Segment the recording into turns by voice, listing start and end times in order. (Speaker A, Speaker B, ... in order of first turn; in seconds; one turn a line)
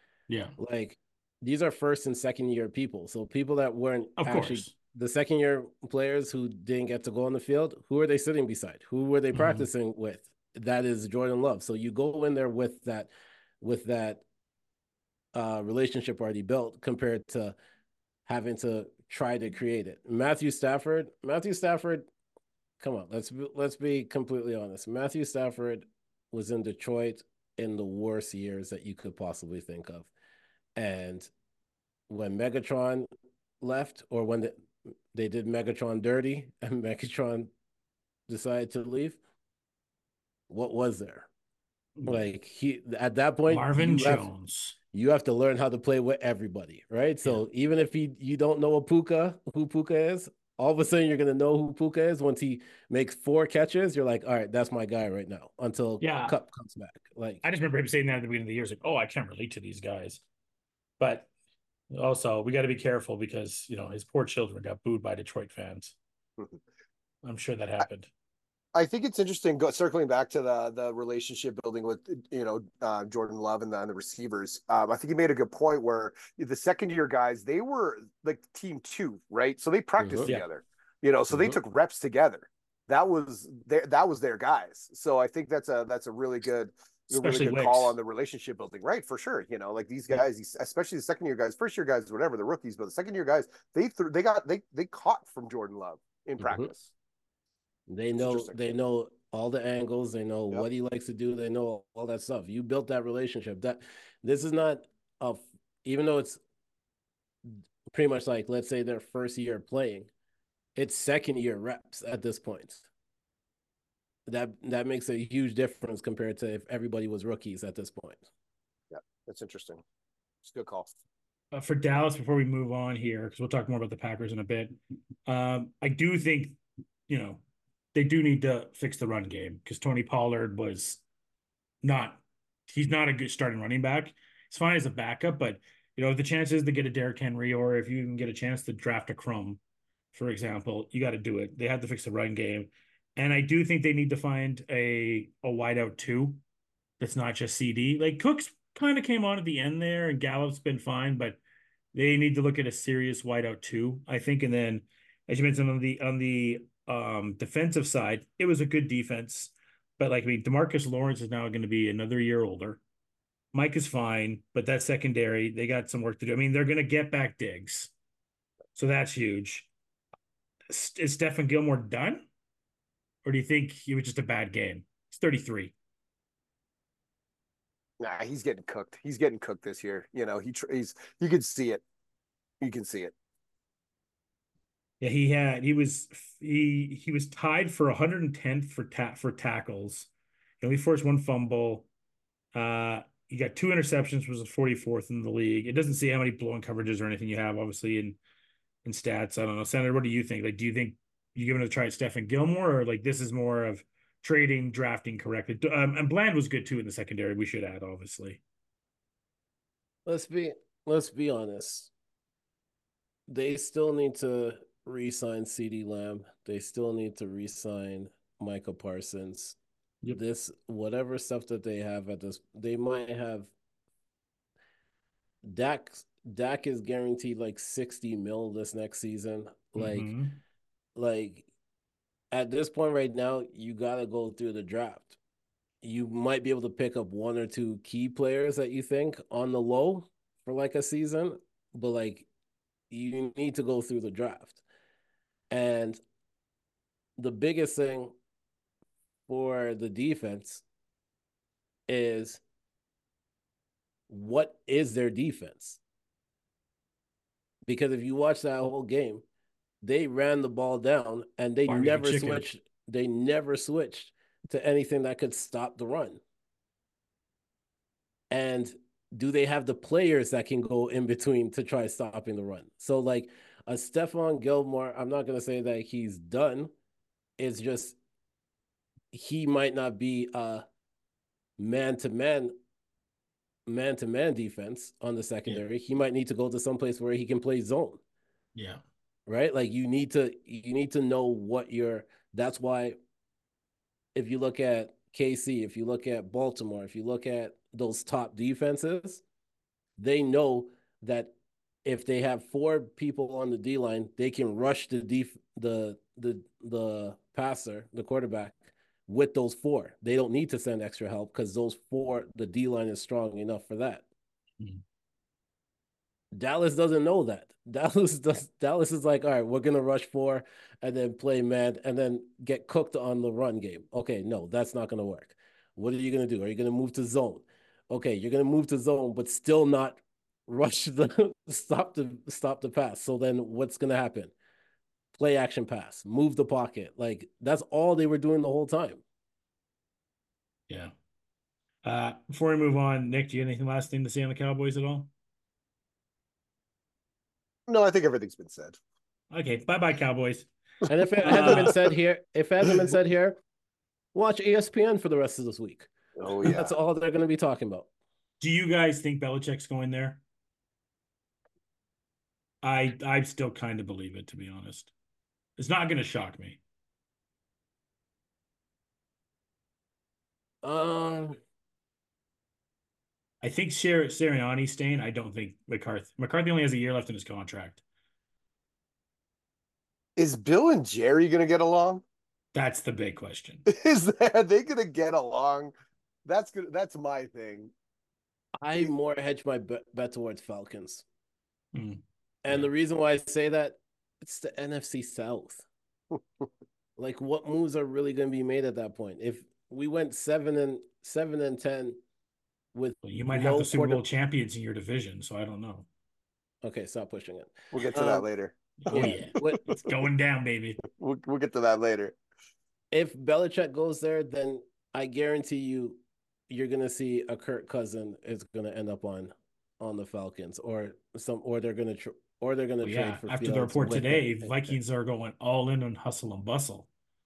Speaker A: 0.3-0.6
Speaker B: 0.6-13.1
Speaker A: 4.2-4.7
Speaker A: 9.3-9.7
Speaker B: 13.6-14.2
Speaker B: 15.3-17.5
Speaker B: 18.2-22.1
Speaker B: 22.8-30.1
Speaker B: 30.8-31.3
Speaker B: 32.1-33.1
Speaker B: 33.6-34.5
Speaker B: 35.1-37.5
Speaker B: 38.3-39.2
Speaker B: 40.5-41.3
Speaker A: 42.0-42.2
Speaker B: 42.1-44.3
Speaker A: 43.5-44.8
Speaker B: 44.9-57.4
Speaker A: 56.0-56.4
Speaker A: 57.4-60.2
Speaker A: 61.0-61.3
Speaker A: 61.9-66.0
Speaker A: 67.2-68.1
Speaker C: 68.7-96.9
Speaker B: 80.0-80.3
Speaker B: 81.3-81.6
Speaker A: 87.1-87.9
Speaker B: 96.4-96.7
Speaker B: 97.9-106.4
Speaker C: 98.2-98.6
Speaker B: 107.5-110.1
Speaker B: 110.8-112.9
Speaker B: 114.3-118.3
Speaker C: 118.9-119.8
Speaker C: 120.4-120.9
Speaker A: 121.5-127.4
Speaker A: 127.9-131.0
Speaker A: 131.8-139.6
Speaker A: 140.1-146.4
Speaker A: 147.0-151.4
Speaker A: 151.9-162.8
Speaker A: 163.5-167.9
Speaker A: 168.7-169.7
Speaker A: 170.7-172.2
Speaker A: 173.2-175.7
Speaker C: 178.0-181.8
Speaker C: 182.6-183.1
Speaker A: 185.0-190.1
Speaker A: 190.6-191.9
Speaker A: 192.5-198.2
Speaker A: 198.8-208.4
Speaker B: 210.1-211.9
Speaker B: 213.3-219.6
Speaker B: 220.1-223.5
Speaker B: 225.4-230.1
Speaker A: 229.8-230.4
Speaker B: 230.9-231.4
Speaker B: 232.3-235.2
Speaker B: 235.8-242.3
Speaker B: 242.9-244.6
Speaker B: 245.5-246.0
Speaker B: 247.2-248.1
Speaker B: 249.3-250.6
Speaker B: 251.9-252.4
Speaker B: 254.1-255.8
Speaker B: 257.6-259.2
Speaker B: 259.8-266.2
Speaker A: 261.6-262.4
Speaker B: 268.3-276.7
Speaker B: 277.4-277.9
Speaker B: 279.1-280.6
Speaker B: 281.6-282.5
Speaker B: 283.6-288.0
Speaker A: 288.6-288.8
Speaker B: 289.2-293.0
Speaker B: 294.1-299.2
Speaker B: 300.0-301.3
Speaker B: 301.8-314.0
Speaker B: 316.3-334.3
Speaker B: 335.1-339.0
Speaker A: 341.8-345.1
Speaker C: 347.7-348.8
Speaker A: 349.3-350.5
Speaker B: 350.9-353.4
Speaker A: 351.2-351.8
Speaker C: 351.2-351.9
Speaker B: 354.1-357.9
Speaker C: 356.1-356.7
Speaker A: 358.4-360.2
Speaker A: 362.6-364.9
Speaker A: 365.6-366.6
Speaker B: 370.6-371.4
Speaker A: 373.4-377.8
Speaker C: 380.2-382.0
Speaker A: 382.5-383.6
Speaker C: 383.7-385.7
Speaker C: 386.2-387.7
Speaker B: 388.6-391.0
Speaker A: 391.7-392.7
Speaker B: 392.4-395.6
Speaker B: 397.0-402.0
Speaker B: 402.7-404.0
Speaker A: 403.0-405.9
Speaker B: 406.6-408.3
Speaker C: 407.7-409.8
Speaker A: 408.8-410.8
Speaker B: 408.9-409.6
Speaker C: 411.0-412.1
Speaker B: 412.9-424.8
Speaker A: 422.8-426.9